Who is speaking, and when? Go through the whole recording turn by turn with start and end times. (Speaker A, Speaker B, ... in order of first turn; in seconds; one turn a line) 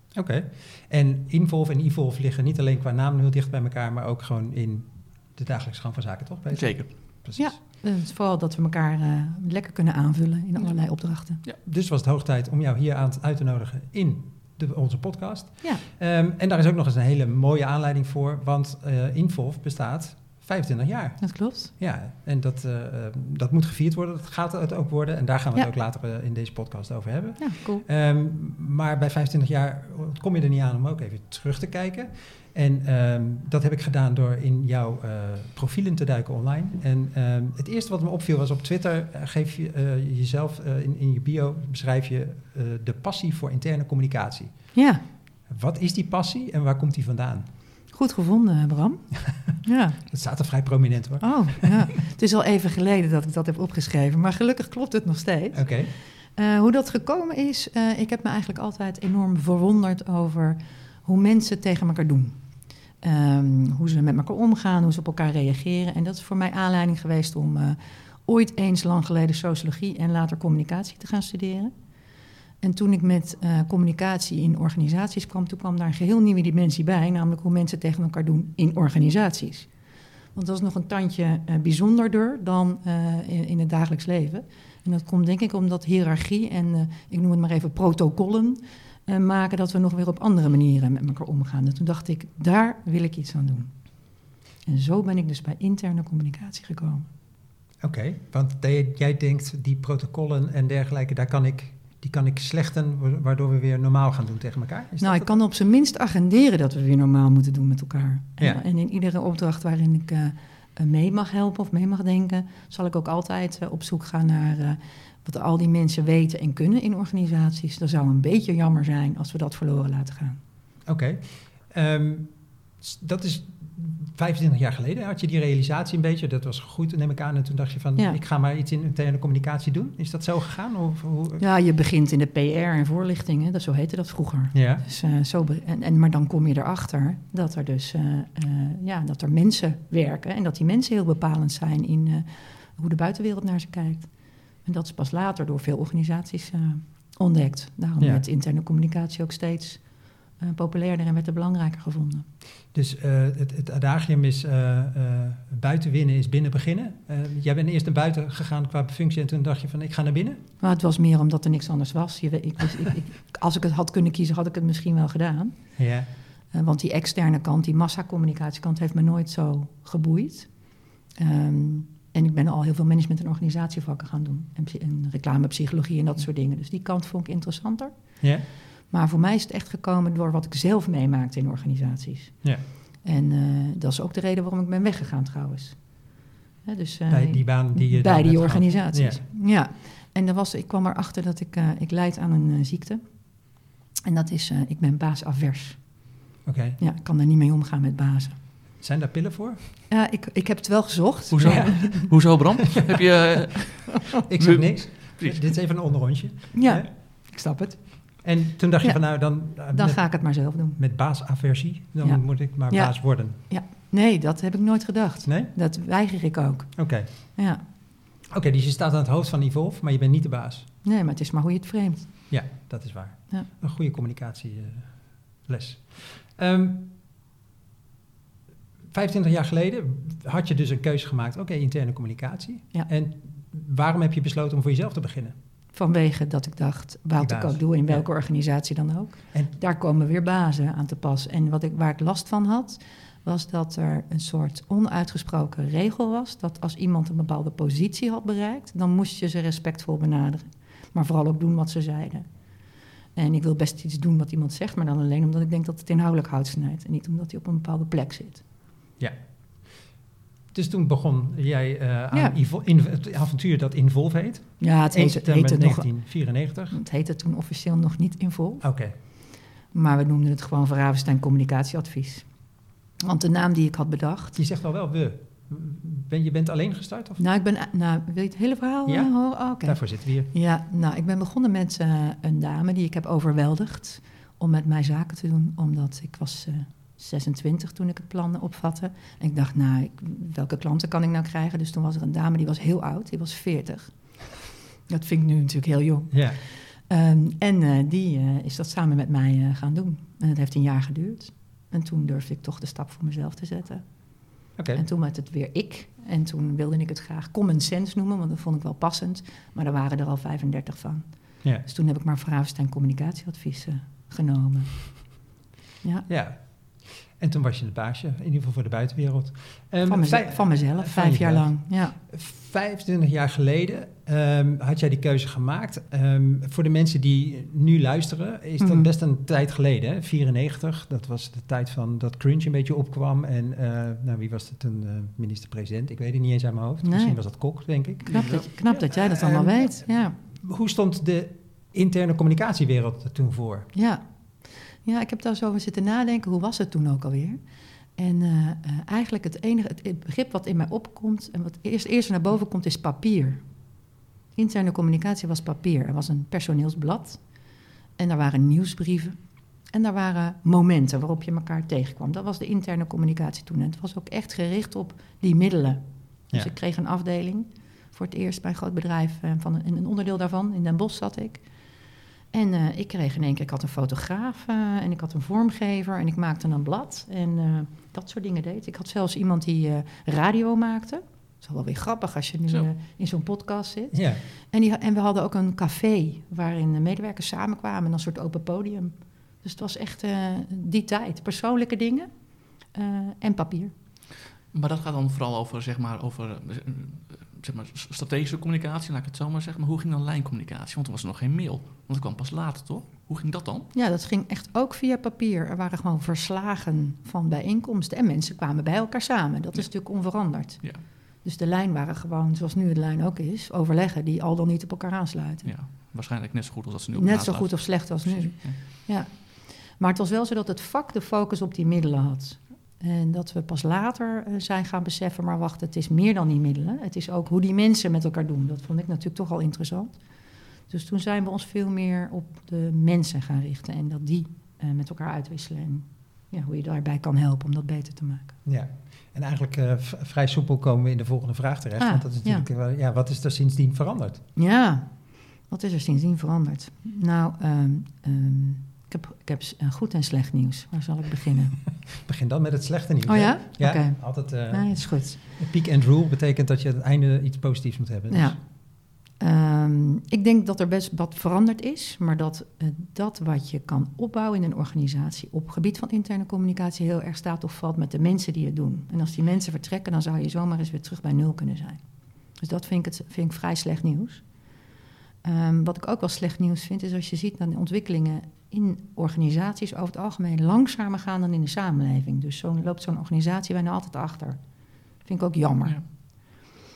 Speaker A: 0.1-7.6
Speaker B: 6.5-6.9
Speaker C: 7.3-11.4
Speaker A: 11.6-44.9
Speaker C: 21.2-21.7
Speaker C: 27.4-27.8
Speaker C: 44.7-45.0
Speaker A: 45.5-47.5
Speaker C: 47.9-50.0
Speaker A: 50.0-51.8
Speaker C: 51.2-71.7
Speaker A: 55.5-55.9
Speaker C: 72.6-79.7
Speaker C: 80.3-97.1
Speaker A: 97.8-105.4
Speaker C: 105.0-120.4
Speaker A: 120.8-131.4
Speaker C: 131.4-152.3
Speaker A: 134.5-134.8
Speaker A: 148.0-148.2
Speaker A: 152.7-160.4
Speaker C: 160.6-165.9
Speaker A: 165.8-166.1
Speaker C: 166.5-196.2
Speaker A: 178.2-178.4
Speaker A: 187.1-189.2
Speaker A: 196.4-196.8
Speaker C: 196.8-198.4
Speaker A: 198.8-199.6
Speaker C: 199.9-202.1
Speaker B: 201.3-205.5
Speaker A: 201.3-202.2
Speaker A: 203.0-203.3
Speaker A: 204.2-206.9
Speaker C: 206.5-208.2
Speaker A: 208.2-213.4
Speaker C: 208.8-210.8
Speaker C: 212.0-217.6
Speaker A: 215.2-215.5
Speaker A: 216.8-217.1
Speaker A: 218.3-220.7
Speaker C: 220.8-222.6
Speaker A: 222.3-226.9
Speaker A: 228.9-235.3
Speaker C: 235.7-258.4
Speaker A: 237.2-238.1
Speaker A: 259.0-259.8
Speaker A: 260.5-266.8
Speaker C: 262.1-262.4
Speaker C: 264.6-274.4
Speaker A: 268.6-268.9
Speaker A: 274.3-277.2
Speaker C: 277.2-315.2
Speaker A: 278.9-280.3
Speaker A: 296.1-296.4
Speaker A: 304.6-304.8
Speaker C: 315.8-316.1
Speaker A: 316.1-343.7
Speaker C: 319.9-322.0
Speaker C: 328.6-328.9
Speaker C: 336.8-340.1
Speaker B: 338.1-338.5
Speaker C: 343.7-371.8
Speaker C: 372.3-393.7
Speaker A: 383.9-384.2
Speaker B: 394.5-403.7
Speaker C: 403.7-415.5
Speaker B: 409.5-410.9
Speaker B: 415.4-418.6
Speaker C: 416.9-438.3
Speaker A: 438.4-444.2
Speaker C: 441.8-442.5
Speaker C: 444.4-451.6
Speaker A: 451.8-458.4
Speaker C: 453.1-455.2
Speaker C: 458.1-474.6
Speaker C: 475.2-486.3